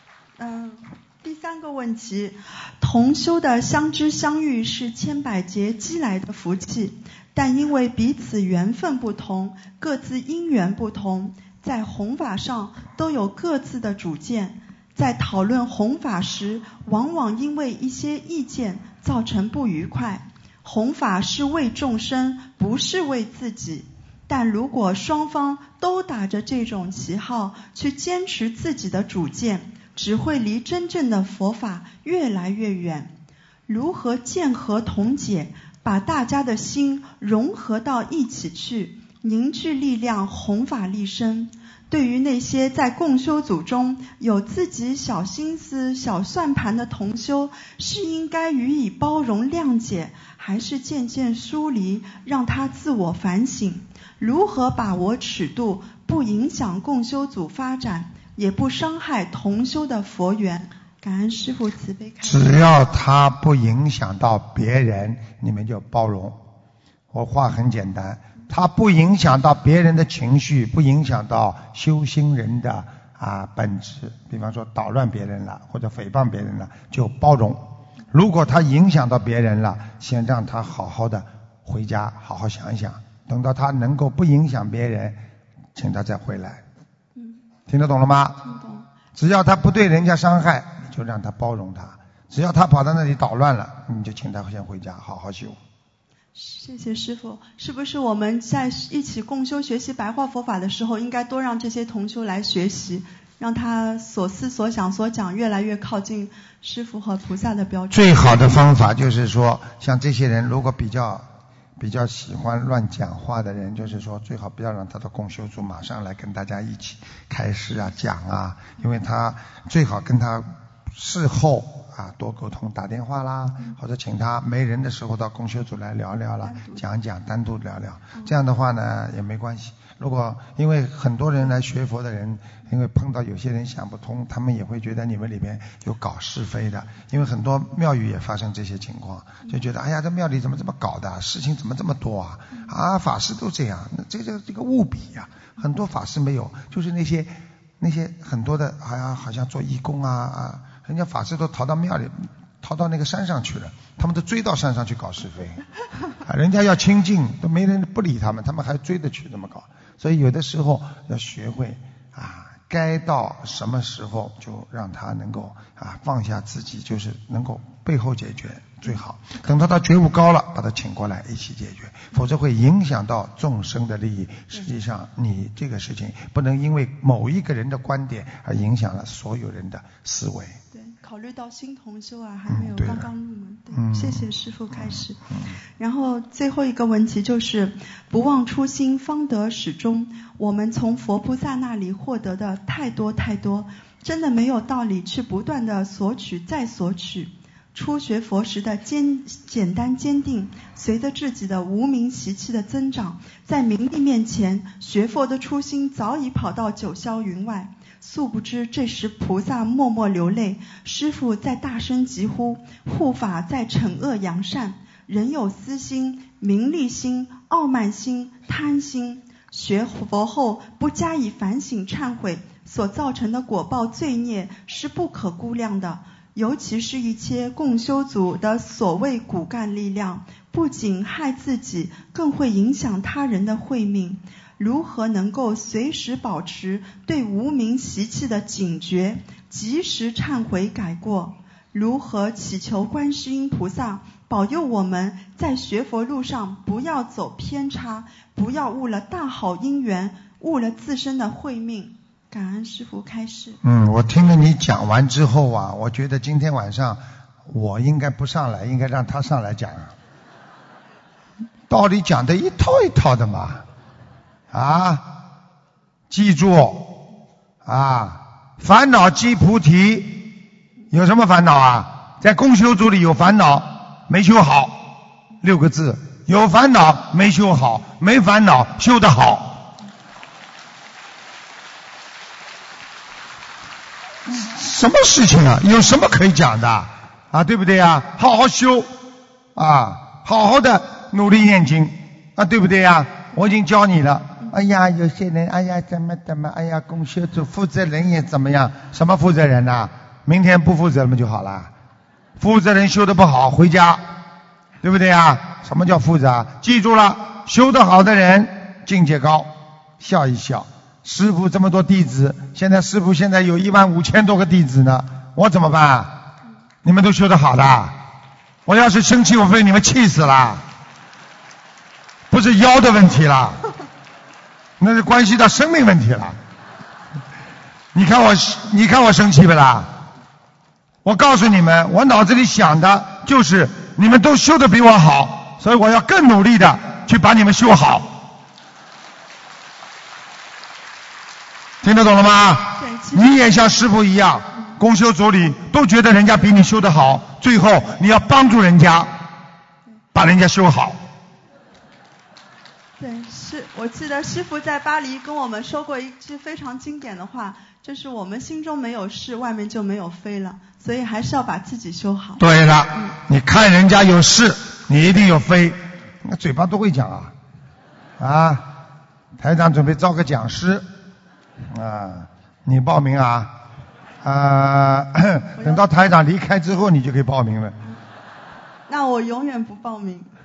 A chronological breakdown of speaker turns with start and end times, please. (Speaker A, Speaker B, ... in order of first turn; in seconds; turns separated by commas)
Speaker A: 0.4-33.1, Speaker A: 33.7-62.7, Speaker B: 62.2-66.4, Speaker B: 67.1-85.2, Speaker B: 85.7-86.6, Speaker B: 87.7-88.4, Speaker A: 88.4-88.9, Speaker B: 89.1-95.6, Speaker A: 96.3-108.5, Speaker B: 107.9-111.3, Speaker B: 111.8-155.6, Speaker A: 126.4-126.8, Speaker B: 156.2-180.6, Speaker A: 180.7-185.2, Speaker B: 182.5-183.1, Speaker B: 183.7-184.2, Speaker A: 185.8-253.6, Speaker B: 253.6-259.9, Speaker B: 261.7-263.6, Speaker B: 264.5-265.1, Speaker B: 266.1-267.0, Speaker B: 267.6-270.3, Speaker B: 270.9-279.7, Speaker B: 284.3-288.9, Speaker B: 289.6-301.7, Speaker B: 302.4-304.0, Speaker B: 304.8-316.2, Speaker B: 316.8-318.0, Speaker B: 318.7-320.6, Speaker B: 322.3-323.6, Speaker B: 324.8-326.4, Speaker B: 327.9-329.9, Speaker B: 331.0-338.1, Speaker B: 341.8-349.1, Speaker A: 342.7-343.4, Speaker B: 350.1-351.0, Speaker A: 353.0-363.2, Speaker B: 362.4-367.3, Speaker B: 368.2-368.7, Speaker B: 369.4-370.9, Speaker B: 371.7-373.5, Speaker B: 374.2-377.8, Speaker A: 375.6-375.9, Speaker A: 378.9-380.3